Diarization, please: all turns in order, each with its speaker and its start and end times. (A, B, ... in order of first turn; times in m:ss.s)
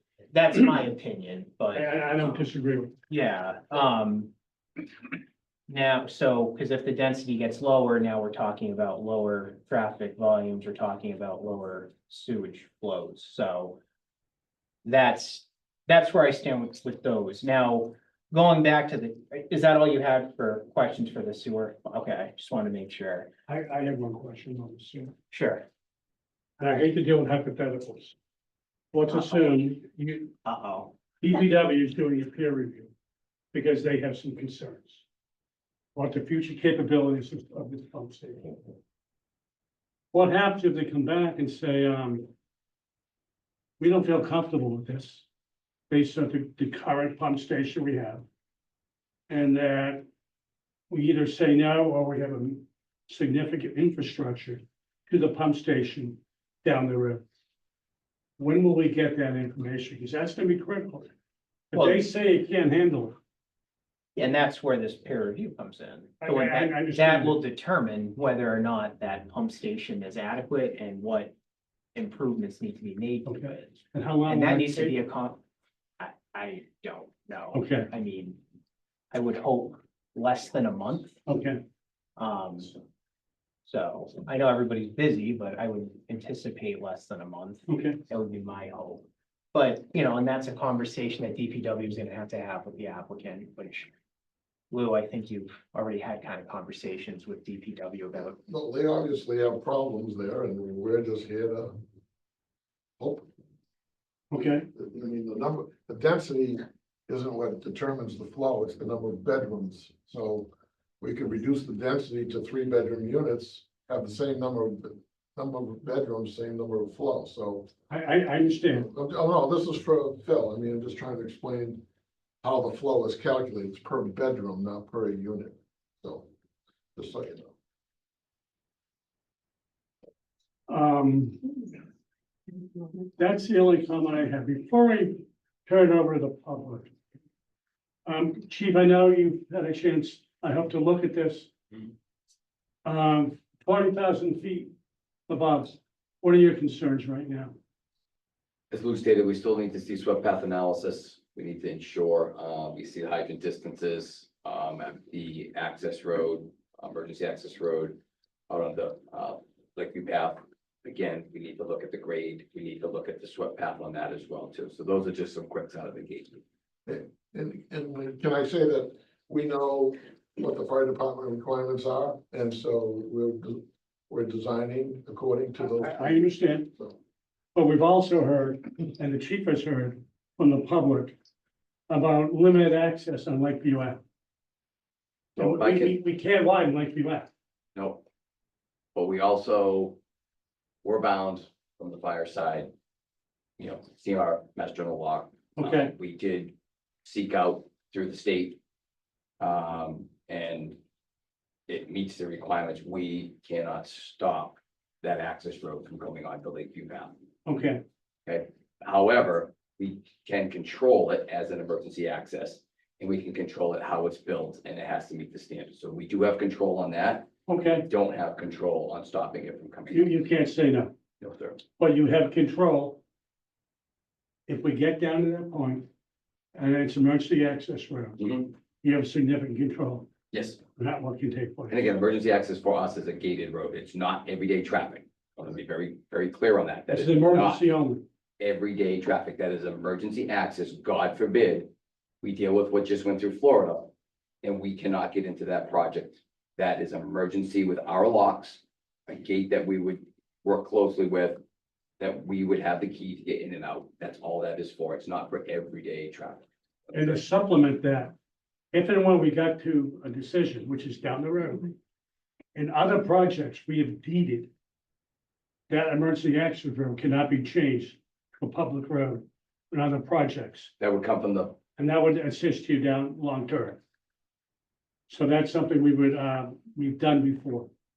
0:00.3-0:02.5 A
0:01.7-0:02.9 B
0:03.1-0:04.3 A
0:05.7-0:13.8 A
0:14.8-0:23.3 A
0:23.5-0:25.1 B
0:25.3-0:25.6 A
0:26.6-0:28.1 B
0:28.9-0:30.4 B
0:29.1-0:29.6 A
0:30.4-0:31.0 A
0:31.2-0:32.9 B
0:33.5-0:35.0 B
0:35.9-0:38.6 B
0:40.1-0:42.3 B
0:43.8-0:45.2 B
0:45.9-0:48.2 B
0:49.3-0:50.0 B
0:50.9-0:57.2 B
0:58.4-1:01.1 B
1:01.7-1:03.2 B
1:01.7-1:02.0 A
1:04.2-1:11.3 A
1:06.2-1:07.4 B
1:11.9-1:15.4 A
1:13.2-1:15.0 B
1:16.0-1:18.4 A
1:17.5-1:17.9 B
1:19.1-1:21.2 A
1:21.2-1:21.6 B
1:22.2-1:22.7 A
1:23.6-1:33.9 A
1:27.7-1:28.0 B
1:34.7-1:38.4 A
1:38.4-1:41.8 C
1:43.0-1:43.3 C
1:44.3-1:44.6 B
1:44.3-1:57.7 C
1:57.9-1:58.9 B
1:58.7-2:01.8 C
2:02.4-2:06.3 C
2:07.0-2:07.5 C
2:10.7-2:11.6 B
2:13.2-2:16.9 B
2:18.0-2:21.5 B
2:22.8-2:24.7 B
2:25.3-2:27.5 B
2:28.7-2:38.0 D
2:38.5-2:46.4 D
2:46.8-2:57.0 C
2:55.6-2:56.7 B
2:57.5-3:01.2 B
3:01.9-3:04.0 B
3:05.4-3:06.0 D
3:05.4-3:07.3 B
3:07.7-3:08.0 D
3:08.9-3:10.0 D
3:10.8-3:12.7 D
3:13.6-3:16.5 D
3:15.6-3:15.9 B
3:17.0-3:18.6 D
3:19.4-3:20.8 D
3:21.7-3:27.1 D
3:27.4-3:27.8 B
3:28.2-3:37.3 D
3:37.5-3:37.9 B
3:37.8-3:40.1 D
3:39.9-3:40.9 B
3:41.2-3:41.6 D
3:41.8-3:43.0 B
3:44.5-3:45.9 B
3:46.5-3:48.2 B
3:48.2-3:48.5 D
3:48.8-3:50.1 B
3:50.3-3:50.6 D
3:50.8-3:51.8 B
3:51.7-3:57.6 D
3:56.9-3:58.0 B
3:58.4-4:01.7 D
4:02.2-4:03.9 D
4:04.4-4:11.4 D
4:12.0-4:17.2 D
4:16.9-4:18.1 B
4:18.7-4:21.8 B
4:22.5-4:24.5 B
4:25.7-4:30.7 B
4:30.8-4:31.6 D
4:31.8-4:33.8 B
4:35.1-4:37.7 B